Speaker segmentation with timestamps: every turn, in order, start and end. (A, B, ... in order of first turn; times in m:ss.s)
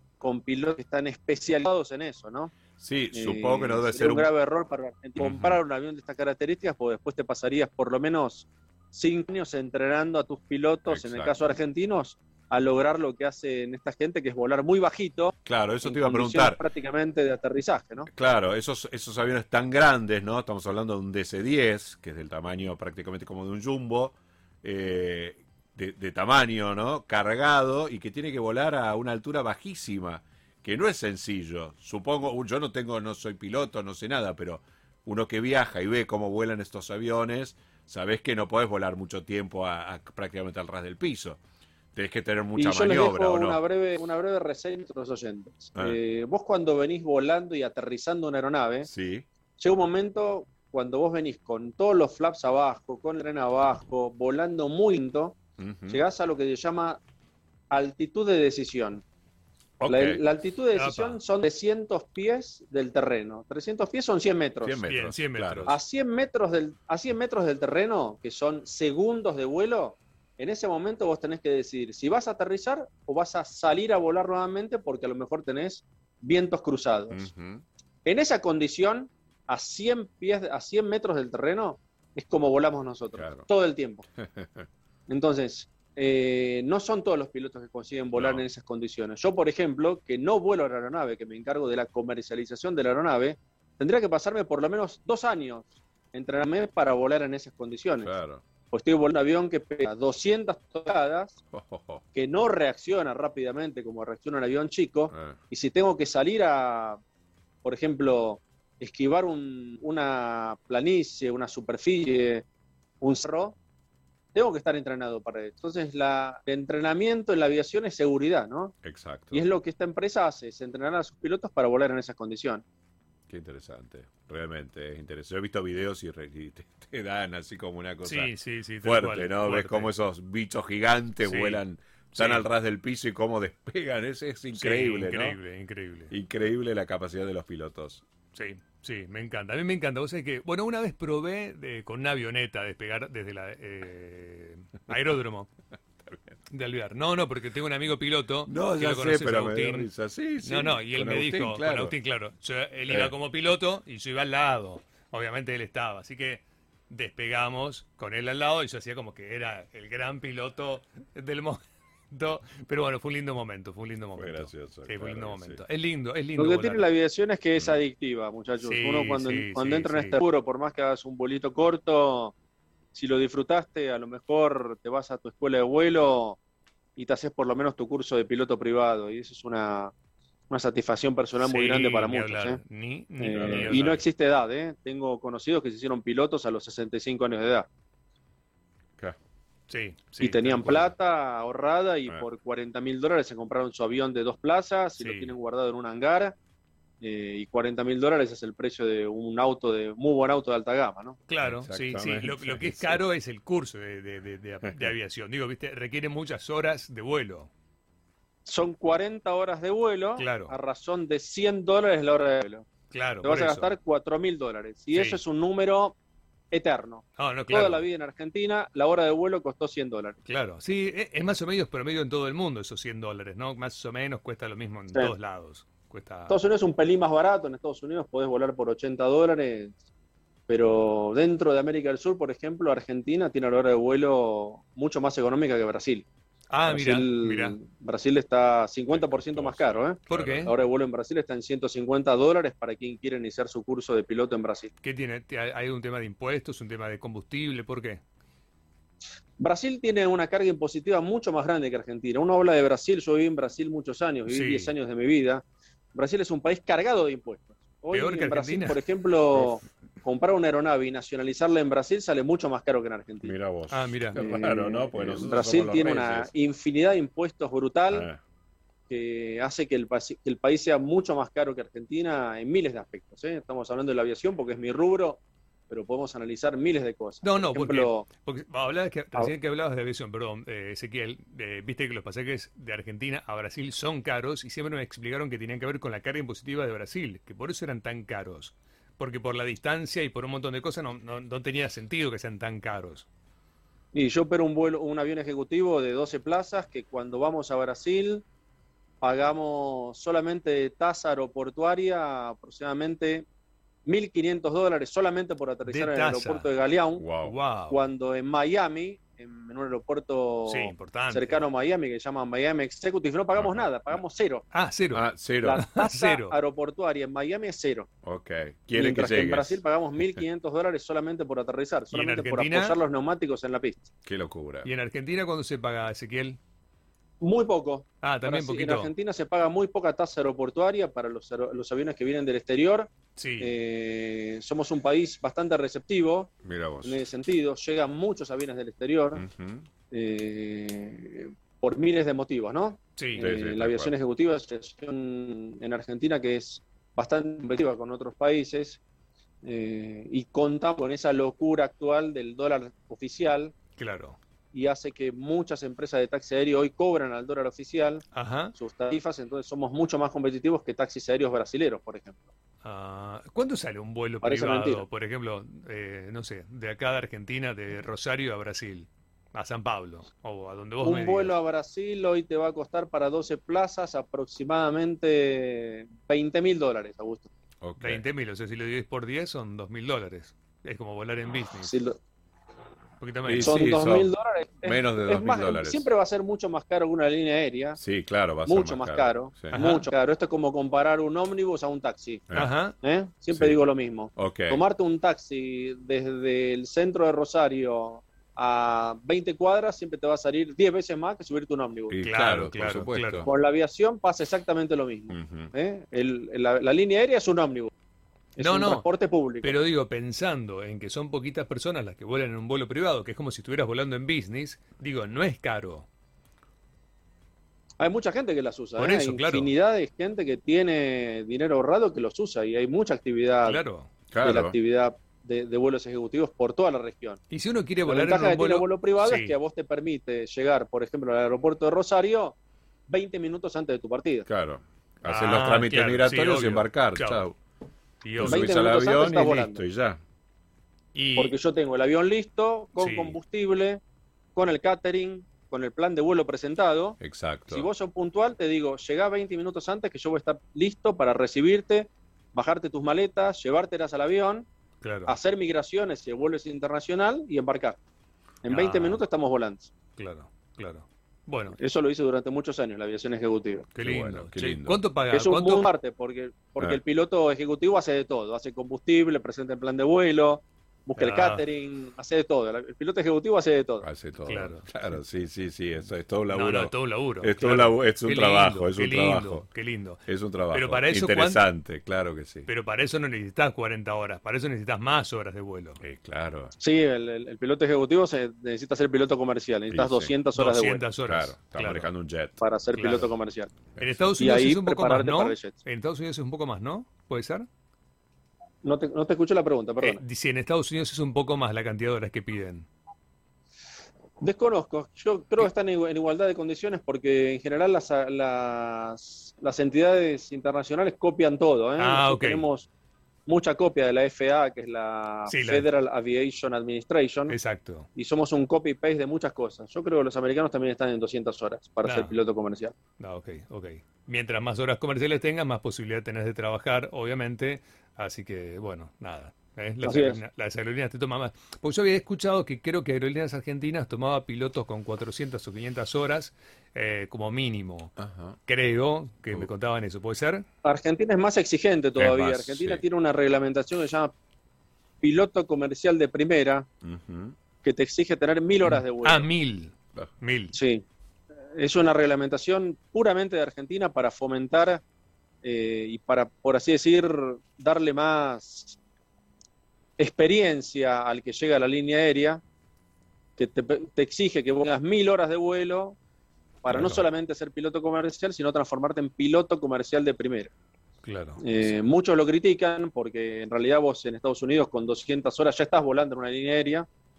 0:00.2-0:02.5 A
0:02.8-0:04.3 B
0:03.1-0:18.1 A
0:05.2-0:05.6 B
0:10.9-0:11.4 B
0:15.4-0:16.6 B
0:18.1-0:41.4 B
0:41.9-0:43.6 B
0:42.6-0:48.9 A
0:48.8-0:49.3 B
0:49.6-0:55.4 A
0:55.6-0:56.0 B
0:55.9-0:57.0 A
0:57.7-0:59.0 A
0:59.8-1:00.2 B
0:59.9-1:04.8 A
1:00.8-1:01.2 C
1:04.6-1:05.7 B
1:04.9-1:05.8 C
1:05.7-1:17.3 A
1:17.1-1:17.6 B
1:18.0-1:24.0 A
1:23.2-1:23.5 B
1:24.2-1:24.7 B
1:25.1-1:38.1 A
1:28.1-1:28.4 B
1:38.0-1:38.4 B
1:38.7-1:41.4 A
1:41.5-1:42.0 B
1:42.1-1:47.0 A
1:45.1-1:45.4 B
1:47.6-1:52.4 A
1:53.0-1:53.6 A
1:54.3-1:58.8 A
1:58.8-1:59.4 B
1:59.3-2:02.6 A
2:03.3-2:08.3 B
2:08.1-2:09.9 C
2:08.8-2:15.4 B
2:11.2-2:11.6 C
2:12.1-2:12.5 C
2:14.6-2:16.1 C
2:16.1-2:18.0 B
2:18.4-2:25.5 C
2:26.5-2:29.9 C
2:28.5-2:31.9 B
2:30.4-2:46.8 C
2:44.2-2:45.6 B
2:46.4-2:52.3 A
2:48.6-2:50.2 C
2:52.9-2:56.4 A
2:57.0-2:59.9 A
3:00.5-3:02.6 A
3:01.4-3:04.0 C
3:03.2-3:07.7 A
3:03.3-3:03.9 B
3:09.7-3:10.9 C
3:10.2-3:16.4 A
3:15.0-3:15.3 C
3:17.0-3:21.2 A
3:21.3-3:27.5 C
3:21.4-3:23.0 B
3:28.4-3:32.7 A
3:30.2-3:30.5 C
3:32.9-3:33.8 C
3:33.2-3:36.0 A
3:34.9-3:35.2 C
3:36.5-3:40.2 A
3:37.2-3:37.8 C
3:40.3-3:46.4 C
3:46.3-3:49.8 A
3:50.5-3:56.1 A
3:56.5-3:57.6 C
3:56.7-4:04.7 A
3:58.9-4:00.5 B
4:00.1-4:00.5 C
4:04.8-4:08.0 C
4:09.4-4:15.4 A
4:14.3-4:14.7 C
4:15.9-4:23.3 A
4:17.9-4:18.8 C
4:23.2-4:26.3 B
4:23.7-4:24.2 C
4:24.2-4:28.1 A
4:27.9-4:28.2 B
4:28.9-4:38.1 A
4:37.2-4:53.1 C
4:53.9-4:58.2 A
4:59.0-5:03.3 A
5:03.9-5:07.1 A
5:05.7-5:06.5 C
5:07.0-5:07.3 B
5:07.2-5:07.8 C
5:07.7-5:14.5 A
5:10.5-5:11.4 C
5:13.4-5:13.6 B
5:14.5-5:16.3 C
5:14.9-5:15.6 B
5:15.4-5:17.9 A
5:18.0-5:20.2 B
5:18.8-5:23.9 A
5:21.9-5:22.8 C
5:24.0-5:24.7 B
5:24.6-5:26.4 C
5:27.2-5:36.3 A
5:28.0-5:28.9 C
5:33.2-5:33.5 C
5:36.4-5:37.0 B
5:36.8-5:39.2 A
5:39.2-5:39.7 B
5:39.9-5:48.8 A
5:43.0-5:43.2 C
5:43.2-5:43.9 B
5:49.4-5:53.5 A
5:53.8-5:54.2 C
5:54.5-5:58.0 A
5:58.2-5:58.5 C
5:58.6-6:02.2 A
6:02.6-6:11.4 C
6:04.2-6:04.8 A
6:10.8-6:17.3 A
6:17.6-6:18.0 B
6:17.8-6:21.7 C
6:21.6-6:22.0 A
6:23.0-6:23.8 C
6:23.2-6:24.1 B
6:23.4-6:27.8 A
6:24.6-6:25.9 B
6:27.8-6:29.6 B
6:28.5-6:32.3 A
6:29.5-6:29.9 C
6:32.3-6:32.8 C
6:32.8-6:42.0 A
6:34.2-6:34.6 B
6:41.9-6:43.3 B
6:42.0-6:43.3 C
6:43.3-6:47.7 A
6:45.1-6:45.5 B
6:48.4-6:49.6 A
6:48.4-6:48.9 C
6:49.4-6:55.9 C
6:57.8-7:03.6 A
6:58.8-6:59.5 C
7:03.4-7:03.9 C
7:04.1-7:04.6 B
7:04.2-7:07.2 A
7:07.3-7:09.4 C
7:07.9-7:12.4 A
7:12.9-7:14.3 A
7:14.3-7:17.4 B
7:15.1-7:17.2 C
7:18.0-7:18.5 C
7:18.2-7:20.0 B
7:18.2-7:19.6 A
7:20.9-7:21.3 C
7:21.2-7:23.8 A
7:22.8-7:23.2 C
7:24.4-7:27.0 A
7:27.0-7:27.7 B
7:27.5-7:34.5 A
7:34.8-7:35.2 C
7:35.1-7:37.8 A
7:38.4-7:39.7 A
7:38.5-7:39.0 C
7:40.0-7:41.6 C
7:41.6-7:43.7 A
7:43.8-7:45.6 C
7:43.8-7:44.8 B
7:45.1-7:53.9 A
7:51.0-7:51.4 C
7:53.8-7:59.4 B
7:54.3-7:54.7 C
7:56.3-8:01.4 C
8:00.1-8:02.5 B
8:02.5-8:05.8 C
8:05.8-8:06.6 B
8:06.6-8:10.8 A
8:09.7-8:10.2 B
8:10.4-8:11.9 C
8:11.1-8:12.4 B
8:12.4-8:13.5 A
8:12.7-8:13.1 C
8:13.8-8:14.1 B
8:13.8-8:17.5 C
8:14.2-8:15.6 A
8:18.6-8:20.0 A
8:19.8-8:22.7 C
8:24.2-8:32.7 A
8:31.8-8:32.5 C
8:33.3-8:37.4 A
8:35.3-8:35.7 C
8:37.3-8:37.9 C
8:38.0-8:42.7 A
8:41.8-8:42.1 C
8:43.0-8:57.9 C
8:49.8-8:50.2 A
8:58.0-8:58.4 B
8:58.5-9:00.4 C
9:00.6-9:04.1 A
9:02.0-9:02.8 B
9:05.0-9:06.7 A
9:06.8-9:07.4 B
9:07.6-9:09.3 A
9:08.6-9:10.6 C
9:10.5-9:10.8 A
9:11.6-9:14.8 A
9:15.4-9:18.8 A
9:20.0-9:22.4 A
9:23.4-9:26.0 A
9:26.6-9:30.5 A
9:26.7-9:27.0 C
9:31.0-9:31.4 C
9:31.4-9:36.9 A